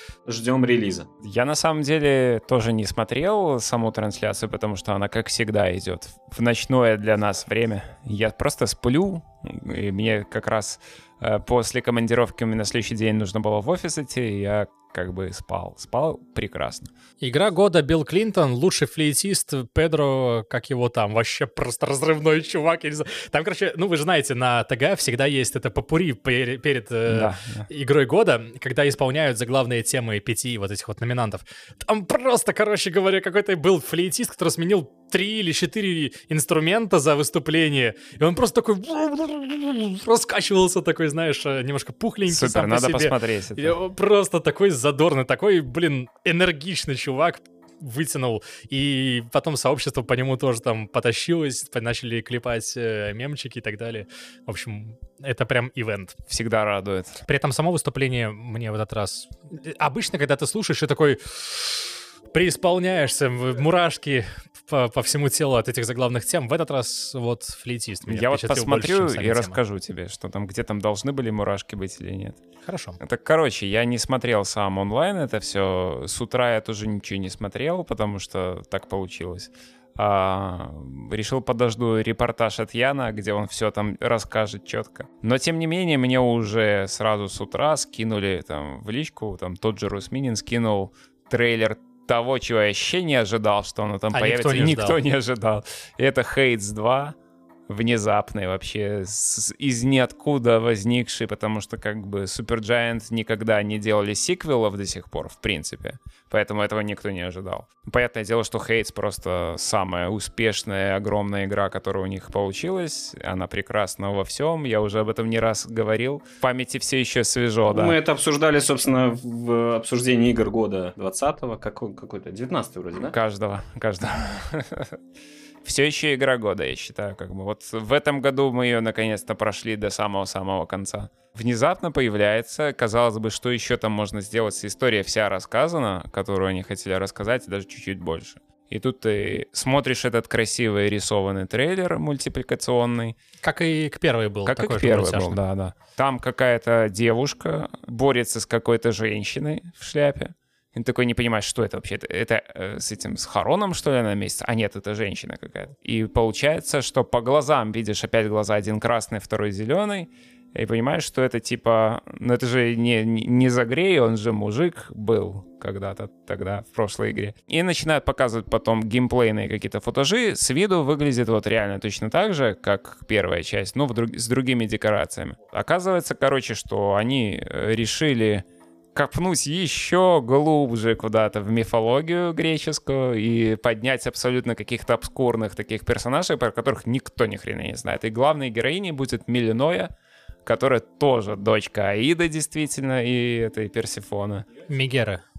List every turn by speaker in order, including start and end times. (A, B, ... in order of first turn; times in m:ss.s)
0:00.2-0:01.1 A
0:01.2-0:16.9 B
0:17.2-0:56.1 C
0:27.1-0:27.7 B
0:42.3-0:43.7 B
0:56.3-0:57.2 B
0:57.2-1:09.6 C
1:08.1-1:12.4 B
1:12.6-1:13.0 C
1:13.0-1:37.1 B
1:34.1-1:35.0 C
1:37.7-1:58.0 B
1:57.6-2:03.1 A
2:03.1-2:05.0 B
2:05.6-2:23.1 B
2:23.4-2:25.4 C
2:24.4-2:58.4 B
2:58.9-3:09.9 B
3:10.4-3:14.4 B
3:14.7-3:15.2 C